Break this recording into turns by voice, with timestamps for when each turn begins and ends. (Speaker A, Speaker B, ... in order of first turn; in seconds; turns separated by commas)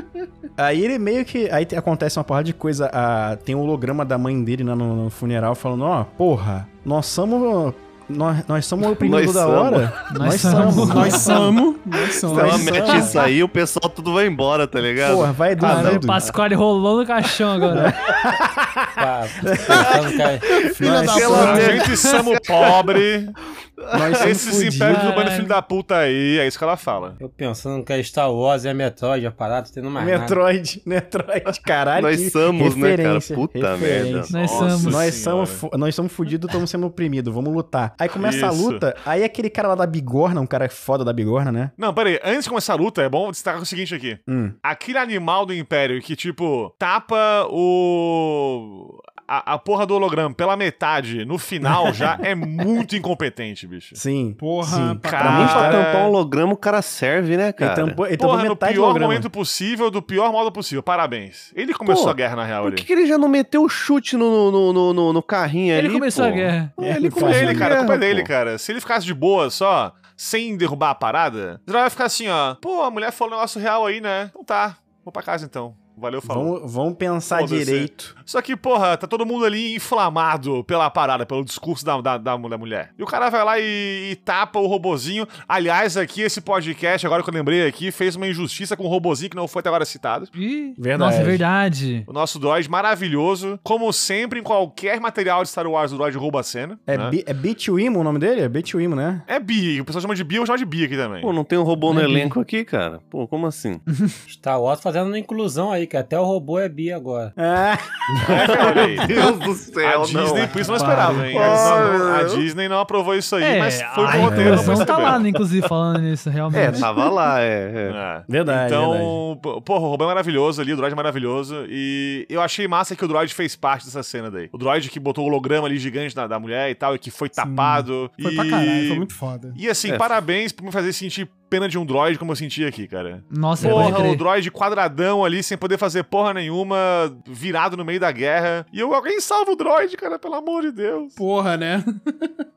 Speaker A: 0.6-11.5, Speaker B: 8.9-10.5, Speaker C: 10.1-11.2, Speaker D: 10.8-13.0, Speaker B: 12.2-16.2, Speaker A: 12.2-13.2, Speaker E: 12.8-13.3, Speaker A: 15.0-16.2, Speaker C: 15.6-18.0, Speaker A: 17.7-20.2, Speaker E: 19.0-20.5, Speaker B: 20.6-22.8, Speaker D: 20.6-21.9, Speaker A: 20.8-21.7, Speaker F: 21.0-23.4, Speaker B: 23.8-24.5, Speaker A: 23.9-25.1, Speaker F: 24.2-27.2, Speaker C: 24.8-25.6, Speaker E: 27.2-30.4, Speaker A: 30.0-41.7, Speaker B: 32.0-34.3, Speaker F: 34.3-35.6, Speaker C: 34.3-35.0, Speaker F: 38.2-38.9, Speaker F: 41.8-54.0, Speaker A: 44.3-44.6, Speaker A: 54.0-55.8, Speaker D: 54.4-55.7, Speaker F: 55.0-56.2, Speaker B: 55.3-58.0, Speaker A: 57.6-59.3, Speaker F: 58.1-62.9, Speaker B: 61.9-68.3, Speaker C: 65.7-66.7, Speaker A: 66.8-67.9, Speaker F: 67.0-76.5, Speaker A: 76.2-78.1, Speaker F: 77.3-90.3, Speaker C: 90.3-92.1, Speaker A: 90.8-91.4, Speaker F: 92.1-97.2, Speaker A: 96.9-99.2, Speaker F: 99.3-101.3, Speaker B: 101.2-103.8, Speaker C: 101.9-102.3, Speaker E: 104.3-107.3, Speaker A: 107.4-109.1, Speaker F: 108.2-109.3, Speaker B: 108.3-112.4, Speaker F: 109.8-115.2, Speaker C: 110.7-111.2, Speaker A: 110.9-111.9, Speaker C: 113.4-116.9, Speaker A: 114.1-114.9, Speaker B: 114.3-115.2, Speaker A: 116.5-116.9, Speaker B: 116.5-118.0, Speaker F: 117.9-141.2, Speaker A: 118.3-119.2, Speaker D: 127.4-129.6, Speaker C: 133.3-134.2, Speaker A: 133.6-134.0, Speaker D: 141.2-142.3